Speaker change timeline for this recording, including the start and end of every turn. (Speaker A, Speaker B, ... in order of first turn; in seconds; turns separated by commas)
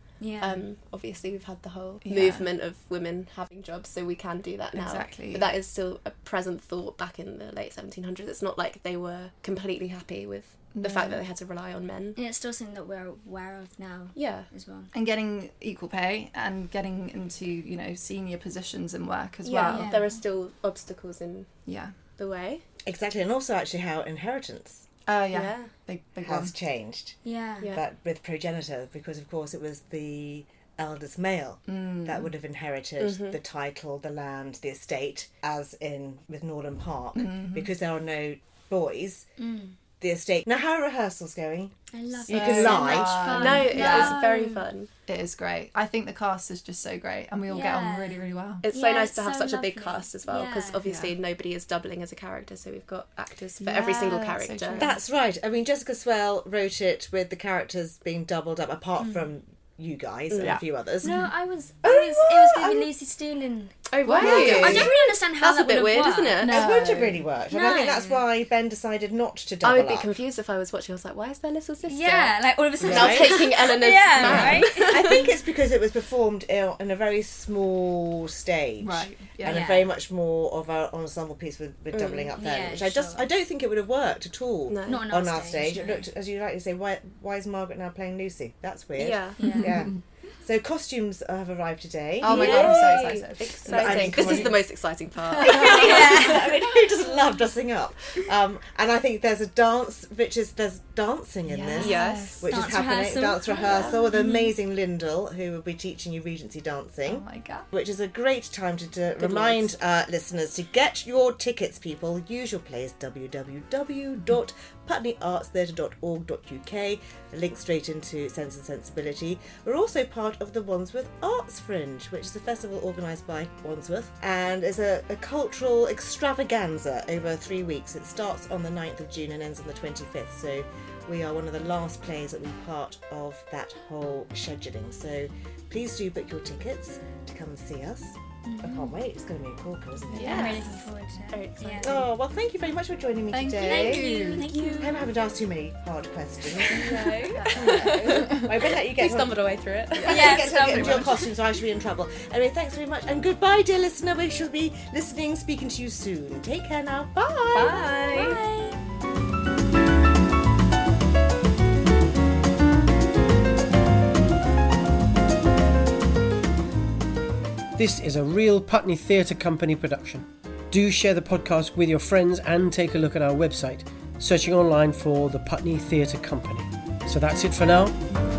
Speaker A: 0.2-0.6, Speaker B: 0.4-12.2, Speaker C: 2.0-2.5, Speaker C: 4.7-5.5, Speaker C: 10.7-11.2, Speaker A: 12.1-14.9, Speaker B: 14.1-14.5, Speaker C: 14.9-19.9, Speaker B: 19.4-21.5, Speaker A: 19.7-20.2, Speaker C: 21.6-21.9, Speaker B: 22.2-22.6, Speaker D: 22.9-24.9, Speaker C: 25.1-26.5, Speaker B: 25.3-25.7, Speaker D: 26.2-27.2, Speaker A: 27.2-27.8, Speaker D: 27.7-39.2, Speaker C: 31.7-32.3, Speaker B: 33.0-33.4, Speaker C: 37.1-37.7, Speaker A: 39.4-39.8, Speaker D: 40.0-43.7, Speaker A: 41.9-44.7, Speaker C: 42.3-44.2, Speaker B: 43.2-44.9, Speaker C: 45.1-48.6, Speaker A: 47.5-50.8, Speaker B: 48.6-54.9, Speaker C: 50.8-51.1, Speaker C: 53.6-55.0, Speaker D: 54.7-61.1, Speaker A: 59.0-59.2, Speaker B: 60.3-60.6, Speaker C: 60.4-61.3, Speaker A: 61.0-66.4, Speaker D: 61.8-62.9, Speaker B: 63.9-66.8, Speaker C: 64.0-65.0, Speaker D: 64.3-64.9, Speaker C: 66.4-67.3, Speaker D: 66.4-70.1, Speaker A: 67.5-68.2, Speaker B: 69.6-75.0, Speaker A: 71.8-75.3, Speaker D: 72.8-73.4, Speaker D: 74.2-94.7, Speaker C: 74.2-74.6, Speaker C: 78.8-79.7, Speaker A: 79.5-79.9, Speaker B: 81.9-82.3, Speaker A: 82.3-83.3, Speaker B: 84.7-85.0, Speaker A: 84.9-86.1, Speaker B: 89.0-89.4, Speaker A: 89.4-89.8, Speaker C: 89.5-90.0, Speaker C: 92.2-94.6, Speaker B: 92.3-96.0, Speaker A: 92.4-92.8, Speaker C: 95.3-96.2, Speaker D: 95.4-140.7, Speaker A: 95.5-96.7, Speaker C: 101.4-102.5, Speaker B: 101.8-102.4, Speaker A: 102.5-104.0, Speaker C: 104.1-104.5, Speaker C: 107.0-107.7, Speaker B: 109.2-109.7, Speaker A: 138.4-138.7, Speaker C: 138.7-138.9, Speaker C: 140.1-140.5, Speaker A: 140.1-142.0, Speaker B: 140.1-142.1, Speaker D: 141.8-144.2, Speaker C: 143.3-144.5, Speaker A: 143.6-145.1, Speaker B: 144.4-145.0, Speaker D: 144.8-149.4, Speaker B: 146.6-150.5, Speaker C: 147.3-148.4, Speaker D: 150.0-157.8, Speaker A: 150.0-151.0, Speaker C: 150.6-151.1, Speaker B: 157.5-158.4, Speaker A: 157.9-158.8, Speaker E: 167.7-178.0